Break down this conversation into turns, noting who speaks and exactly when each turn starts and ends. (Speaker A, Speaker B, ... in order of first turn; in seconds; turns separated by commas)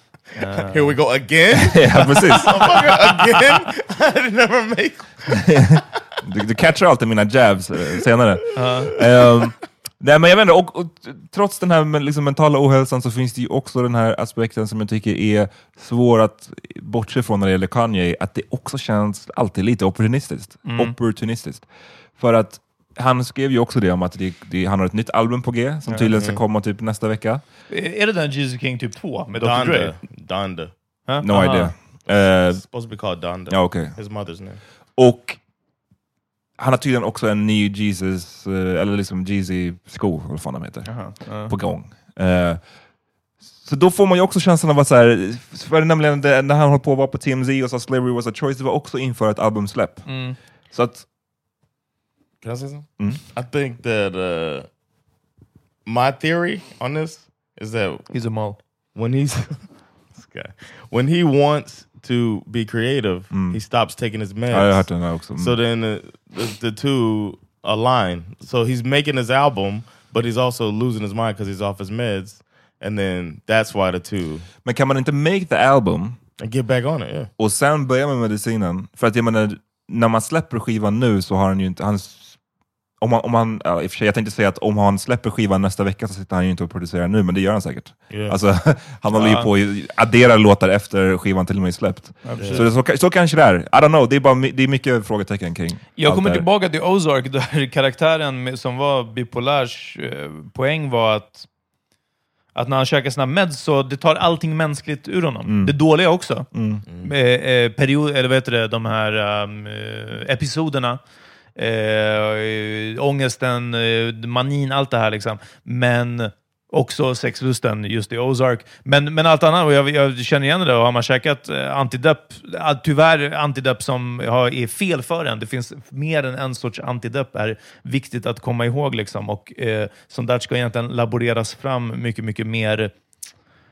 Speaker A: 0.3-1.0, Speaker B: 0.7-5.8, Speaker C: 1.6-2.6, Speaker A: 2.5-2.9, Speaker C: 5.5-21.6, Speaker A: 8.6-8.9, Speaker A: 20.6-20.9, Speaker C: 22.2-27.4, Speaker B: 26.1-26.4, Speaker A: 27.7-29.9, Speaker B: 29.4-30.7, Speaker A: 31.1-31.7, Speaker C: 31.2-32.6, Speaker B: 32.5-34.6, Speaker C: 33.5-34.0, Speaker C: 34.9-35.4, Speaker C: 36.6-42.6, Speaker A: 40.9-41.5, Speaker C: 43.6-51.0, Speaker A: 50.0-50.4, Speaker B: 52.4-54.7, Speaker B: 55.9-58.1, Speaker A: 58.1-58.6, Speaker B: 58.9-74.5, Speaker C: 63.3-63.6, Speaker C: 64.5-65.6, Speaker C: 74.6-76.2, Speaker B: 76.4-77.3, Speaker C: 77.4-82.4, Speaker C: 83.0-96.5, Speaker B: 88.1-88.4, Speaker A: 89.1-89.5, Speaker A: 92.2-92.7, Speaker B: 92.4-92.7, Speaker A: 96.0-101.5, Speaker A: 102.5-106.5, Speaker C: 105.4-105.8, Speaker C: 106.5-106.8, Speaker B: 106.8-107.1, Speaker A: 107.0-111.0, Speaker A: 111.5-132.9